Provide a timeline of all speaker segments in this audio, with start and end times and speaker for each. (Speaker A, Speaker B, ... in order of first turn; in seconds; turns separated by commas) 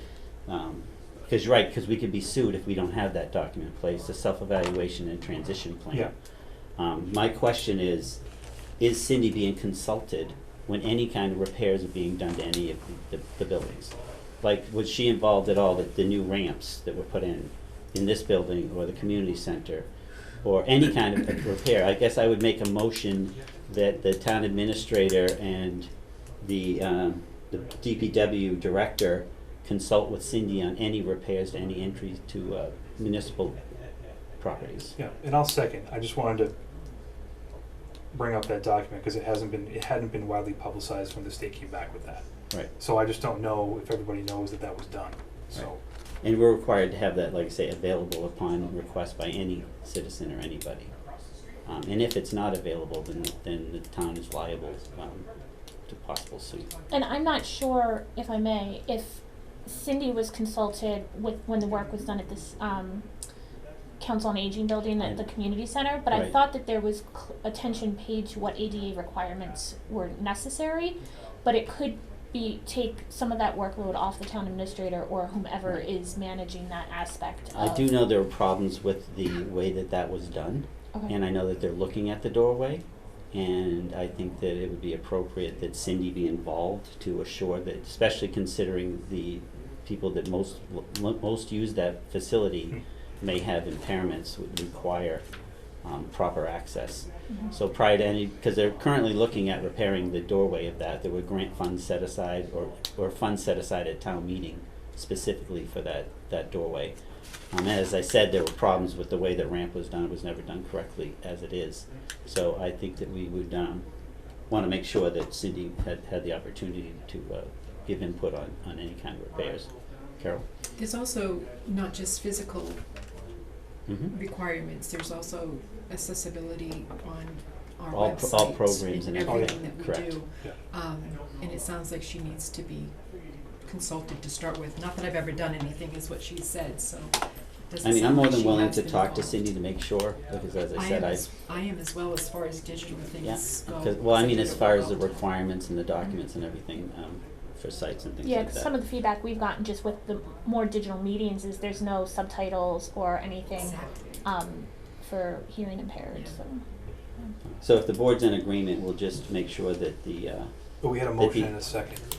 Speaker A: 0.5-6.1, Speaker A: 6.8-8.2, Speaker A: 8.8-25.9, Speaker A: 26.4-33.6, Speaker A: 34.4-35.0, Speaker B: 35.0-36.5, Speaker B: 38.1-42.2, Speaker B: 42.8-45.8, Speaker A: 46.2-50.9, Speaker A: 51.7-55.3, Speaker A: 55.9-56.7, Speaker C: 56.9-63.0, Speaker C: 64.0-78.0, Speaker A: 77.5-95.2, Speaker A: 95.8-107.0, Speaker A: 107.5-113.9, Speaker A: 114.5-120.5, Speaker D: 120.8-122.8, Speaker A: 123.9-124.1, Speaker D: 124.1-132.9, Speaker A: 127.9-130.2, Speaker B: 129.2-129.6, Speaker D: 133.7-139.5, Speaker A: 137.8-141.3, Speaker D: 140.8-145.3, Speaker A: 143.2-148.7, Speaker C: 148.2-156.6, Speaker D: 153.6-154.2, Speaker A: 157.6-160.5, Speaker B: 160.8-162.0, Speaker A: 161.1-161.5